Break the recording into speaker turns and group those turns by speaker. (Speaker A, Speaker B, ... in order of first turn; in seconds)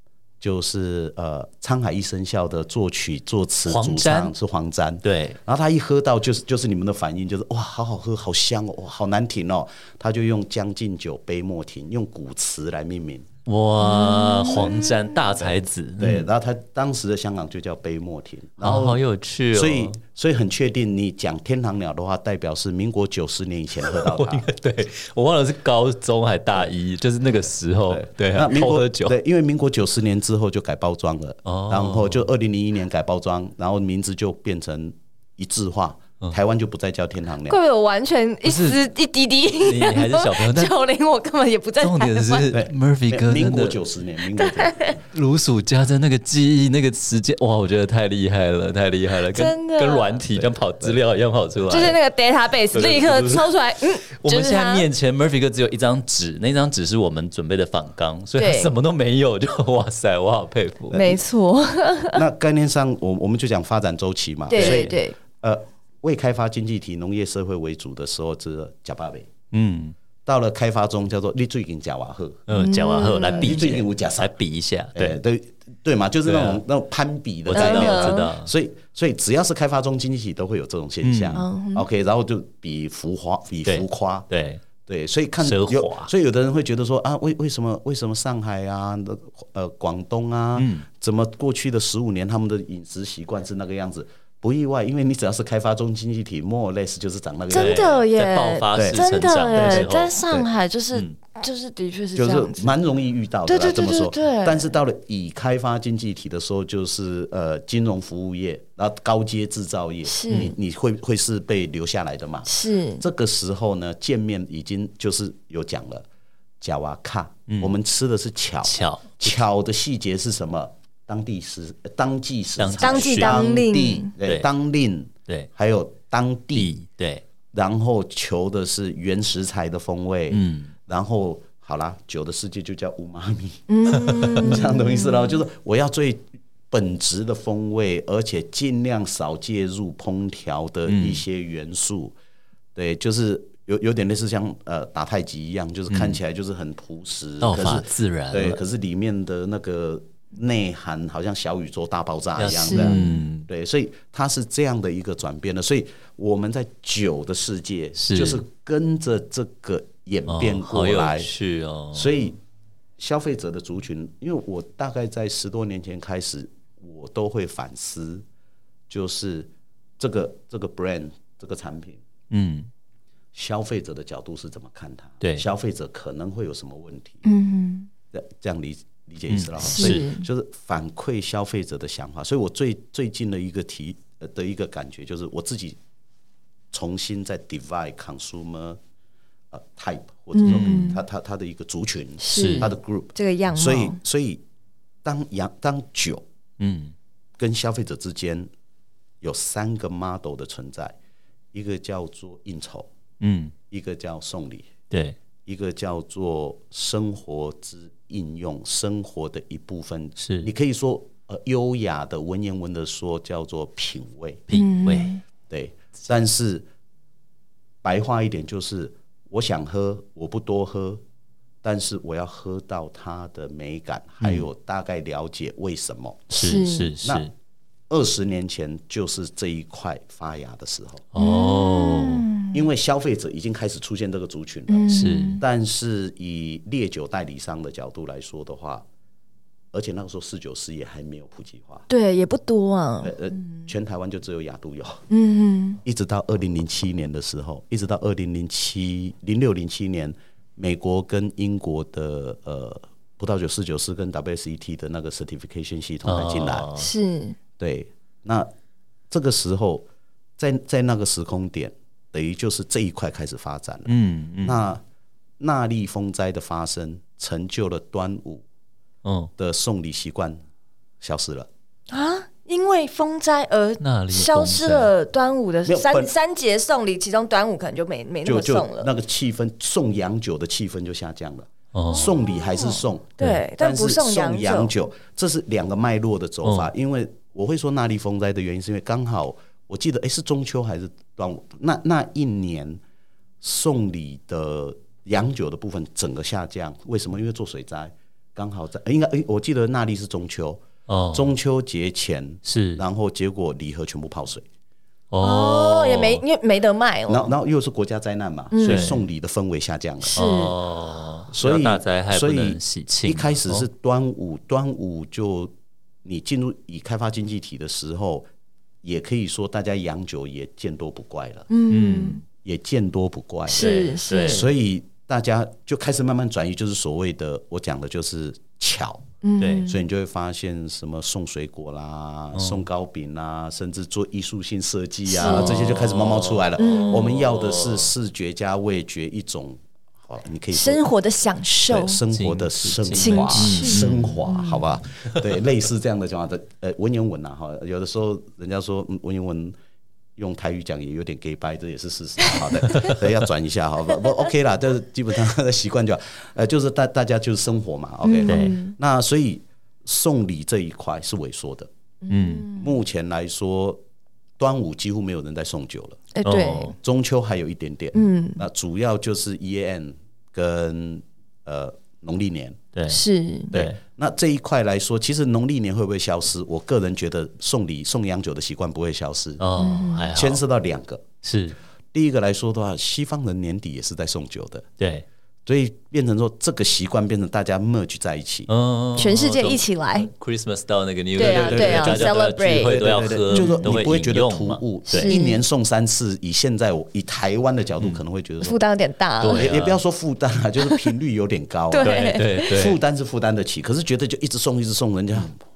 Speaker A: 0.4-13.3, 16.0-19.0, 19.5-24.5, 27.9-37.6, 42.5-45.0, 50.3-51.0, 52.7-53.5, 60.9-61.2, 62.1-69.3, 70.2-72.5, 73.2-74.4, 74.9-84.3, 84.9-98.0, 98.7-100.5, 102.1-116.0, 116.6-126.7, 127.5-142.1, 142.7-161.3, 161.9-162.4, 163.0-168.2, 168.9-172.0, 173.3-177.2, 178.1-185.8, 186.7-188.8, 189.5-194.4, 195.0-196.2, 197.4-198.5, 199.2-201.0, 201.5-202.9, 203.7-204.7, 205.4-214.4, 215.5-216.6, 217.8-221.0, 221.6-226.3, 227.9-231.1, 232.5-238.9, 239.7-241.9, 243.0-245.0, 245.8-256.7, 257.6-258.5, 259.1-259.9, 260.4-263.9, 264.4-264.8, 265.4-268.4, 269.4-270.4, 271.0-271.5, 275.6-276.1, 278.2-292.8, 293.4-304.4, 307.1-310.2, 311.3-315.5, 316.0-318.3, 318.8-321.5, 322.4-329.1, 329.6-340.8, 341.7-349.6, 350.1-361.7, 362.5-363.8, 364.4-366.1, 366.8-372.6, 373.5-379.4, 380.1-381.1, 381.9-384.7, 385.4-388.5, 391.2-398.6, 399.4-405.4
Speaker B: 3.6-4.3, 5.0-5.4, 13.4-16.3, 18.6-20.0, 23.8-29.1, 31.4-32.3, 38.4-38.8, 39.6-40.8, 41.8-43.8, 45.1-52.0, 54.2-61.0, 64.5-65.0, 69.5-70.0, 72.5-75.2, 76.2-76.6, 77.5-78.5, 81.0-81.4, 83.6-84.6, 85.4-86.1, 90.5-90.9, 97.5-100.2, 110.3-110.5, 117.5-117.7, 118.6-119.4, 122.6-123.5, 124.2-124.5, 126.5-127.2, 130.3-130.7, 134.0-134.6, 140.9-141.2, 145.9-146.2, 147.4-148.6, 152.4-153.5, 158.0-158.4, 160.3-162.1, 172.3-172.7, 179.3-180.1, 190.4-190.9, 192.3-192.7, 196.6-196.9, 203.2-203.5, 204.9-205.2, 210.2-210.5, 214.5-215.2, 224.2-224.4, 226.3-227.3, 231.1-232.3, 234.9-235.4, 256.1-256.9, 263.9-264.6, 269.0-269.3, 273.8-274.9, 281.7-282.1, 286.4-286.7, 300.9-301.3, 302.4-302.8, 305.1-306.2, 308.6-309.1, 310.1-313.7, 321.7-322.2, 324.1-324.5, 329.4-329.6, 332.3-332.6, 335.2-337.9, 342.1-344.3, 352.7-353.0, 358.3-358.6, 362.1-362.5, 366.2-366.8, 372.7-373.8, 379.4-380.4, 381.2-381.6, 384.8-385.1, 388.5-395.1, 399.2-399.8, 401.8-402.8
Speaker C: 13.8-15.0, 37.5-42.5, 44.4-45.0, 49.3-50.2, 51.7-54.9, 58.4-58.7, 60.9-62.2, 64.5-65.2, 72.5-73.6, 77.5-78.3, 81.3-81.9, 97.5-102.7, 103.5-104.7, 110.0-110.5, 112.5-113.0, 122.8-124.1, 133.7-135.2, 152.6-153.2, 177.2-177.9, 179.6-180.2, 190.4-191.0, 192.2-194.0, 214.5-215.2, 226.3-226.9, 231.2-232.6, 234.7-235.4, 241.9-243.7, 245.1-245.8, 256.8-257.4, 271.9-278.9, 281.9-284.7, 305.2-307.3, 308.5-308.9, 310.0-310.6, 321.5-322.2, 323.5-324.5, 329.2-329.8, 335.1-335.5, 336.6-337.1, 340.5-342.0, 342.9-344.6, 352.3-352.9, 358.0-358.7, 362.0-362.7, 366.1-366.8, 367.9-368.4, 372.9-373.5, 379.6-380.1, 389.0-390.1, 391.1-392.8, 393.3-393.7, 394.9-395.4, 398.4-399.5, 401.7-402.6